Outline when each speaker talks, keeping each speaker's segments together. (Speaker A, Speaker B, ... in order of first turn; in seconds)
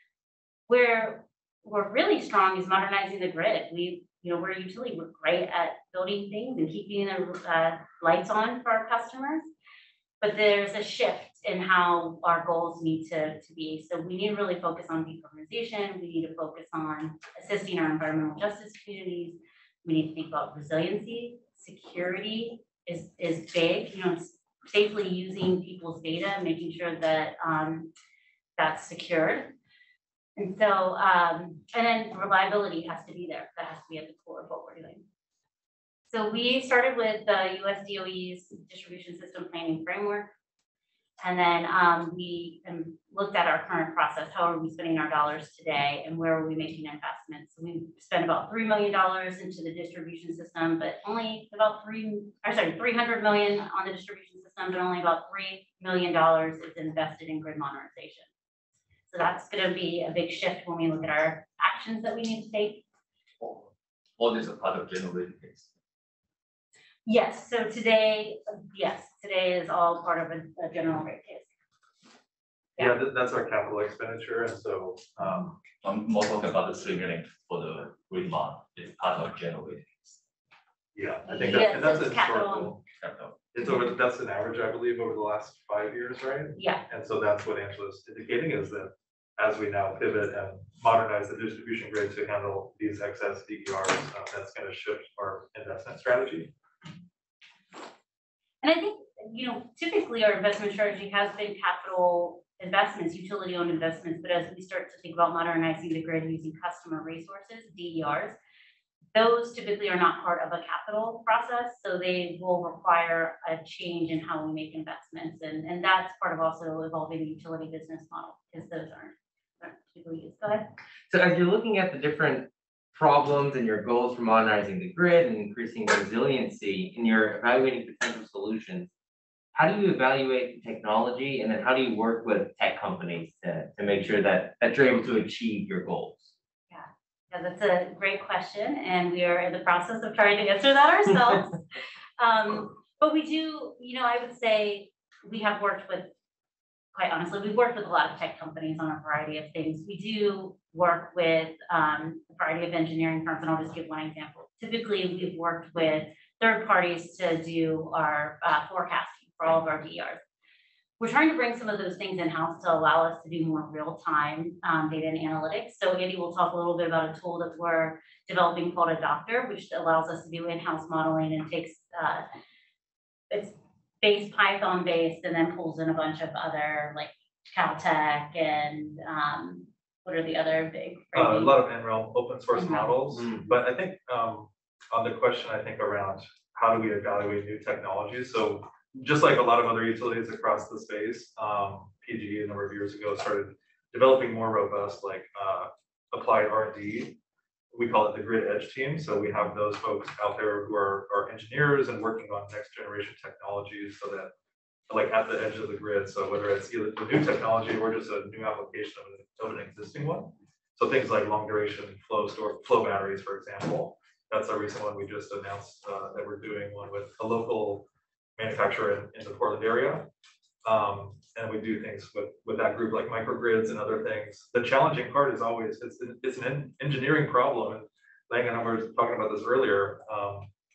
Speaker A: 0.7-9.5, 10.2-27.9, 28.6-29.5, 30.4-35.0, 36.1-40.3, 41.2-58.3, 59.1-62.8, 67.0-71.5, 81.2-82.8, 86.6-86.8, 98.6-108.3, 109.1-120.7, 136.7-141.6, 142.2-146.1, 146.9-160.2, 161.0-172.2, 173.3-181.6, 182.5-183.0
Speaker B: 64.2-65.7, 75.8-80.1, 83.0-83.4
Speaker C: 72.8-75.6, 80.9-82.8, 83.5-96.5, 181.1-197.2, 197.7-204.3, 204.9-220.1, 220.6-230.5
Speaker D: 121.1-128.9, 129.5-136.3